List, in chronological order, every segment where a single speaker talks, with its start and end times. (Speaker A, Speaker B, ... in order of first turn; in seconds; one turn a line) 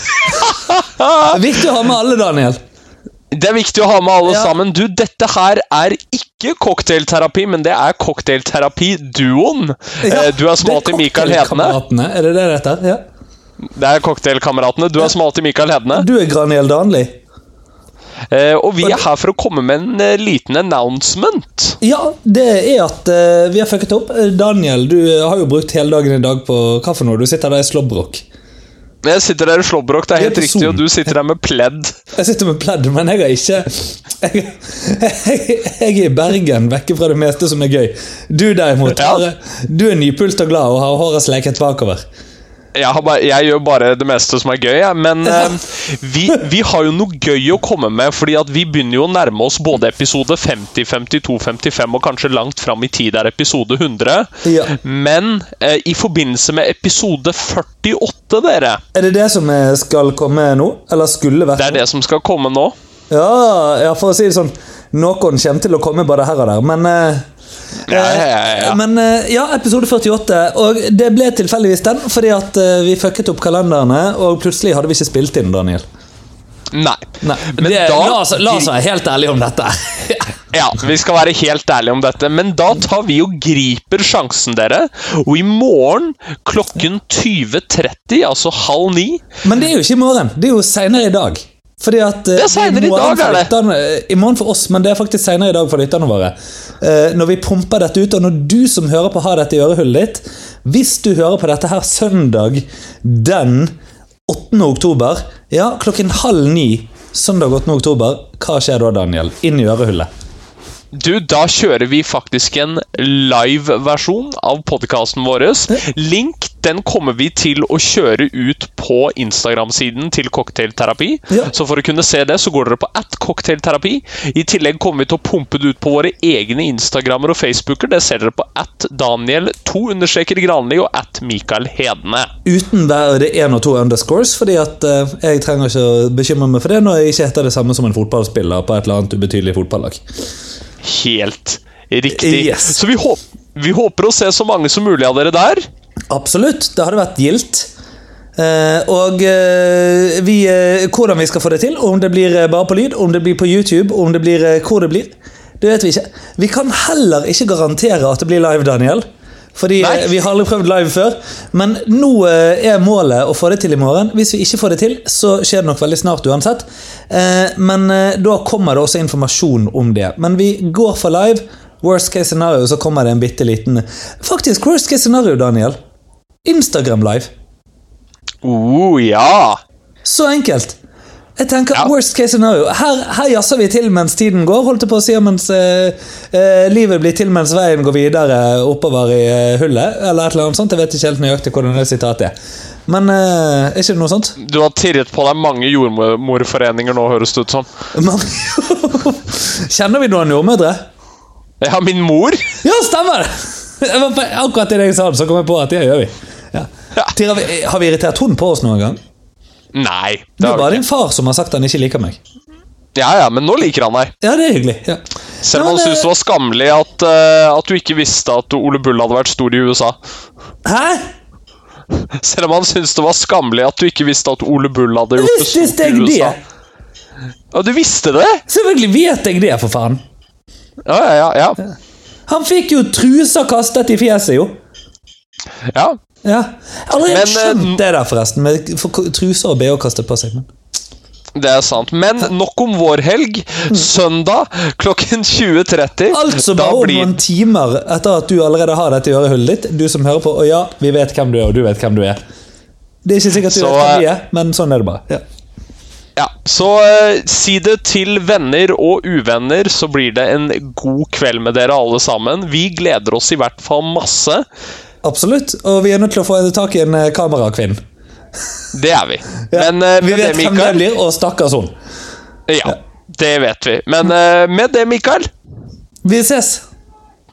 Speaker A: 0.2-1.4
Speaker B: 1.3-2.6
Speaker A: 3.3-11.8
Speaker B: 4.2-4.5
Speaker B: 10.0-13.0
Speaker A: 13.8-16.1
Speaker B: 15.9-17.2
Speaker A: 18.3-21.8
Speaker B: 21.8-28.2
Speaker A: 29.0-31.9
Speaker B: 30.1-31.1
Speaker B: 32.2-42.0
Speaker A: 38.9-39.2
Speaker A: 42.8-58.8
Speaker B: 45.3-45.5
Speaker B: 54.4-54.7
Speaker B: 58.9-61.9
Speaker A: 61.6-62.7
Speaker B: 63.1-67.2
Speaker A: 67.9-68.8
Speaker B: 67.9-75.8
Speaker A: 76.7-78.7
Speaker B: 77.2-80.3
Speaker A: 80.5-89.2
Speaker B: 89.4-103.7
Speaker A: 92.4-93.5
Speaker B: 104.3-110.1
Speaker A: 110.9-132.3
Speaker B: 132.4-140.0
Speaker A: 140.8-145.6
Speaker B: 142.1-142.8
Speaker B: 146.1-147.7
Speaker B: 148.4-159.0
Speaker B: 159.6-175.8
Speaker A: 159.8-160.1
Speaker B: 176.4-177.3
Speaker A: 178.4-179.6
Speaker B: 180.0-180.8
Speaker B: 181.4-192.3
Speaker B: 192.9-194.4
Speaker A: 194.4-197.7
Speaker B: 197.9-200.8
Speaker A: 201.6-202.4
Speaker B: 202.6-209.0
Speaker A: 209.7-210.8
Speaker B: 210.4-212.2
Speaker A: 212.9-214.1
Speaker B: 214.2-216.1
Speaker A: 215.4-220.0
Speaker B: 220.7-221.0
Speaker A: 222.2-226.4
Speaker B: 225.2-226.4
Speaker A: 227.5-228.4
Speaker B: 228.5-230.0
Speaker A: 230.9-231.6
Speaker B: 232.3-234.5
Speaker A: 235.7-236.0
Speaker B: 236.2-240.5
Speaker A: 237.1-237.8
Speaker A: 241.3-247.2
Speaker B: 246.1-252.2
Speaker B: 253.0-255.2
Speaker A: 253.4-254.1
Speaker A: 256.2-264.4
Speaker B: 265.0-267.8
Speaker A: 268.7-270.8
Speaker B: 269.5-271.7
Speaker A: 272.5-275.3
Speaker B: 276.0-276.6